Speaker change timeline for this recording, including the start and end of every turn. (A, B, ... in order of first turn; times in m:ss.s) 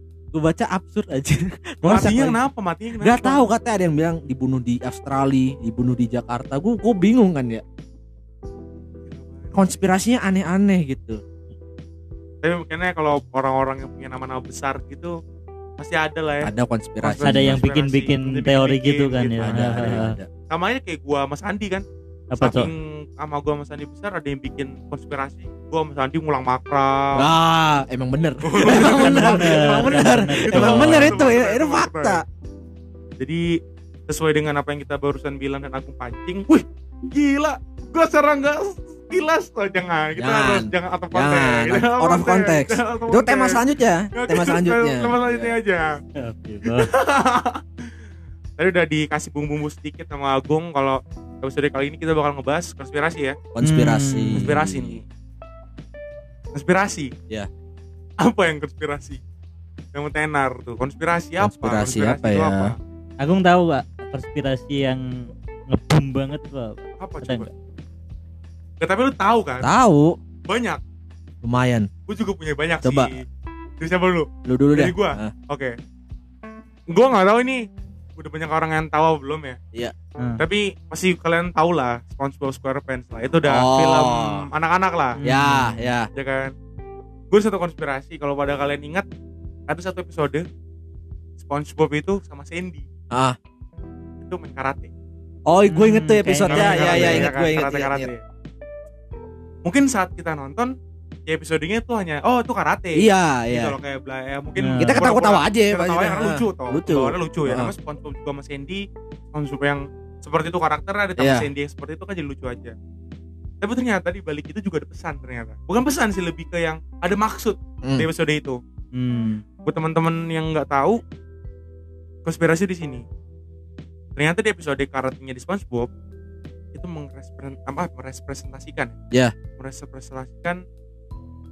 0:00.3-0:02.4 A
0:01.8-0:03.4 B
0:03.0-0:07.6 A
0:09.1-0:09.6 B
0:09.5-0:11.2 A
0:12.4-0:15.1 B
0:15.8-0:16.5 B
0:16.4-0:17.6 A
0:17.0-0:21.8 B
0:17.2-0:20.1 C
0:19.4-0:20.3 A
0:22.3-0:22.7 C
0:22.4-0:27.3 B
0:27.1-0:32.2 A
0:28.4-0:32.2 B
0:28.6-0:31.3 C
0:33.2-0:43.6 B
0:40.2-0:45.5 A
0:44.1-0:46.0 B
0:46.1-0:46.9 C
0:46.6-0:47.9 B
0:48.6-0:53.4 B
0:53.5-0:55.0 A
0:53.6-0:54.4 C
0:54.3-0:55.0 B
0:56.5-0:57.1 B
0:58.2-0:59.2 B
0:59.9-1:02.8 B
1:01.4-1:02.7 A
1:03.2-1:07.5 C
1:07.0-1:07.5 B
1:08.8-1:09.7 B
1:09.6-1:10.2 A
1:10.5-1:10.8 B
1:11.4-1:11.9 A
1:12.1-1:13.2 B
1:12.8-1:13.1 A
1:13.8-1:15.8 B
1:14.4-1:15.3 A
1:16.9-1:17.6 B
1:18.2-1:19.6 B
1:20.4-1:25.2 B
1:23.4-1:24.4 A
1:25.2-1:25.9 C
1:25.2-1:26.1 A
1:26.1-1:26.5 B
1:27.3-1:29.0 B
1:29.7-1:30.4 B
1:31.4-1:32.9 B
1:33.1-1:33.4 A
1:34.2-1:34.9 B
1:35.5-1:38.1 A
1:35.7-1:37.3 C
1:36.4-1:38.2 B
1:39.6-1:40.7 B
1:41.3-1:52.7 B
1:42.9-1:43.8 A
1:44.6-1:45.0 C
1:44.8-1:47.7 A
1:51.2-1:51.5 A
1:53.6-1:58.6 B
1:57.8-1:58.1 A
1:58.9-1:59.4 C
1:59.6-2:01.0 B
2:02.2-2:03.0 B
2:04.2-2:05.9 B
2:06.7-2:08.9 B
2:09.6-2:10.6 B